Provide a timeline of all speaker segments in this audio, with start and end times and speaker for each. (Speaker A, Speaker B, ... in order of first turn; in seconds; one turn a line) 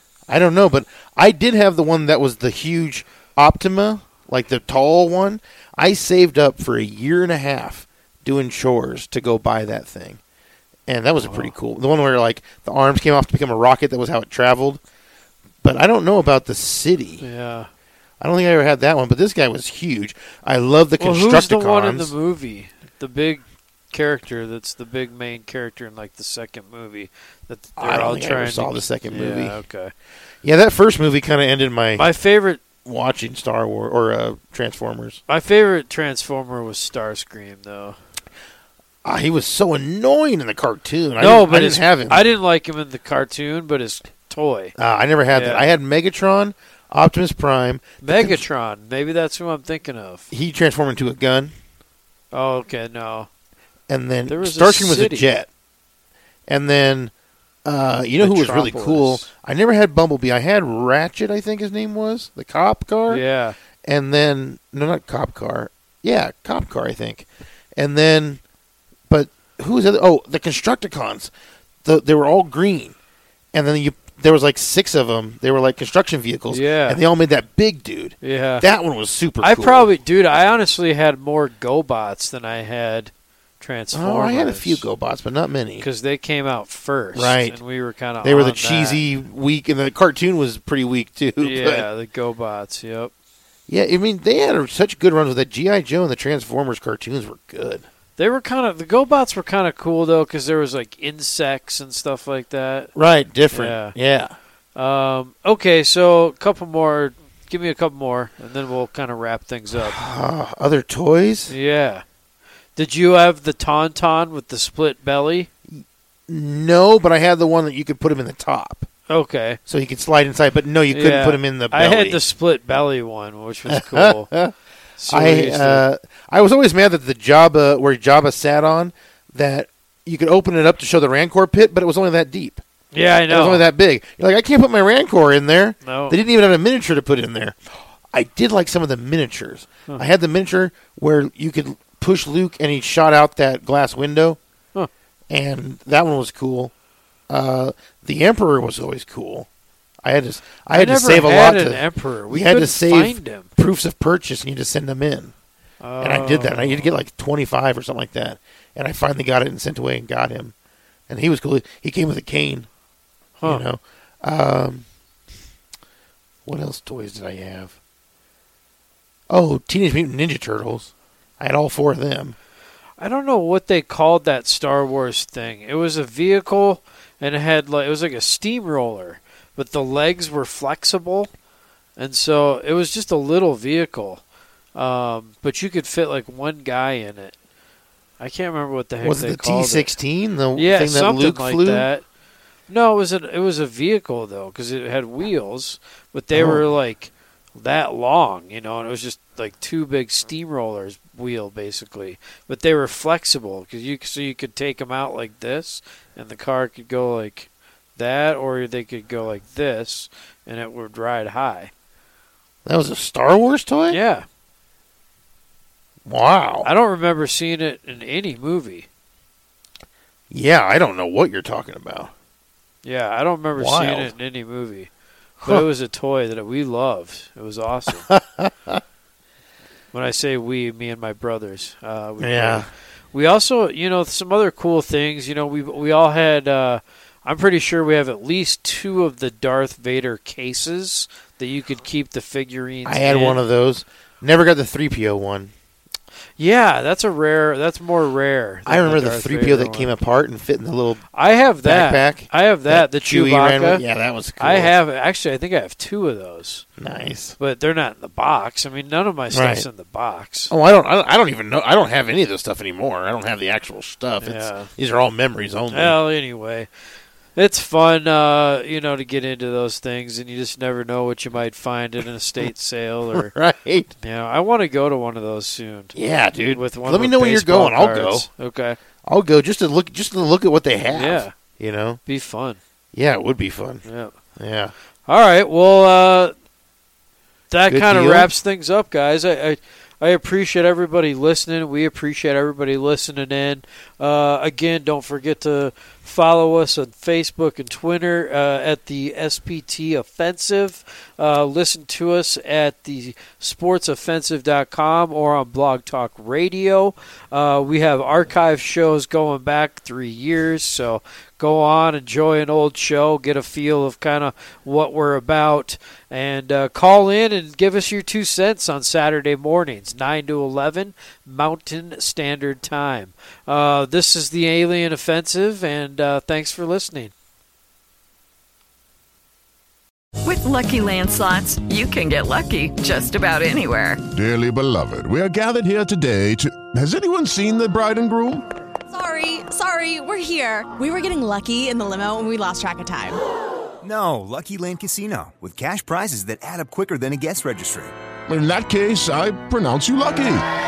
Speaker A: 0.3-10.2
Speaker A: 10.9-14.8
Speaker B: 11.2-11.5
Speaker A: 15.6-17.2
Speaker B: 17.2-17.7
Speaker A: 18.2-22.1
Speaker B: 21.0-29.9
Speaker A: 27.8-29.6
Speaker A: 30.4-32.1
Speaker B: 32.0-32.6
Speaker A: 32.9-35.2
Speaker B: 35.3-38.0
Speaker A: 39.0-42.3
Speaker B: 41.2-44.8
Speaker A: 44.8-48.4
Speaker B: 45.3-45.7
Speaker B: 48.0-50.3
Speaker A: 50.3-51.5
Speaker B: 52.3-53.3
Speaker A: 53.9-55.5
Speaker B: 54.3-55.3
Speaker A: 56.5-57.1
Speaker A: 57.6-63.2
Speaker B: 58.2-59.3
Speaker B: 63.1-63.6
Speaker A: 63.9-68.4
Speaker A: 69.1-71.3
Speaker A: 71.8-73.0
Speaker A: 73.5-79.9
Speaker B: 76.5-77.0
Speaker B: 78.2-78.7
Speaker B: 79.4-84.8
Speaker A: 83.9-85.9
Speaker B: 85.8-89.0
Speaker A: 87.1-87.6
Speaker A: 88.2-91.9
Speaker B: 91.4-93.1
Speaker A: 93.7-97.8
Speaker B: 98.2-102.9
Speaker A: 103.0-104.3
Speaker B: 103.5-104.0
Speaker B: 104.8-110.0
Speaker A: 109.7-111.5
Speaker B: 111.5-112.0
Speaker B: 112.8-115.5
Speaker A: 115.7-118.9
Speaker B: 119.1-119.6
Speaker A: 119.7-122.2
Speaker B: 120.9-124.3
Speaker A: 123.7-124.5
Speaker B: 125.0-125.8
Speaker A: 125.1-132.6
Speaker B: 132.9-133.6
Speaker A: 133.3-137.6
Speaker B: 135.8-136.2
Speaker A: 138.1-144.4
Speaker A: 145.3-146.7
Speaker A: 147.3-149.5
Speaker A: 150.0-155.3
Speaker B: 150.7-153.5
Speaker B: 155.8-156.9
Speaker A: 156.0-160.5
Speaker A: 161.1-162.7
Speaker B: 163.4-163.7
Speaker A: 163.4-164.9
Speaker A: 166.5-167.8
Speaker A: 169.3-172.3
Speaker B: 173.0-181.3
Speaker B: 182.0-184.2
Speaker B: 184.8-187.3
Speaker B: 188.2-189.9
Speaker A: 189.0-191.9
Speaker B: 190.6-192.0
Speaker B: 192.7-211.7
Speaker A: 196.3-196.7
Speaker A: 212.7-214.0
Speaker B: 213.9-214.3
Speaker A: 216.1-216.7
Speaker B: 216.6-218.9
Speaker A: 220.3-222.1
Speaker B: 222.8-224.9
Speaker A: 223.6-224.1
Speaker B: 225.4-228.1
Speaker A: 228.0-228.8
Speaker B: 229.9-243.4
Speaker A: 232.2-232.7
Speaker A: 242.8-245.5
Speaker B: 246.4-249.9
Speaker A: 248.7-251.0
Speaker B: 251.1-253.8
Speaker A: 251.6-254.7
Speaker B: 254.4-256.7
Speaker A: 256.8-257.4
Speaker B: 257.4-260.5
Speaker A: 259.3-259.7
Speaker A: 260.5-266.0
Speaker B: 264.2-264.7
Speaker B: 265.7-266.7
Speaker B: 267.4-273.3
Speaker A: 273.1-273.9
Speaker B: 274.0-276.0
Speaker A: 275.9-278.3
Speaker B: 276.5-278.8
Speaker A: 279.1-282.0
Speaker B: 280.9-281.3
Speaker B: 282.1-282.6
Speaker A: 282.9-283.8
Speaker B: 283.9-284.1
Speaker A: 284.4-284.7
Speaker B: 285.1-286.3
Speaker B: 287.5-327.1
Speaker A: 287.7-288.3
Speaker C: 330.2-334.0
Speaker D: 334.1-338.5
Speaker E: 338.9-343.2
Speaker F: 343.8-347.9
Speaker D: 348.3-350.4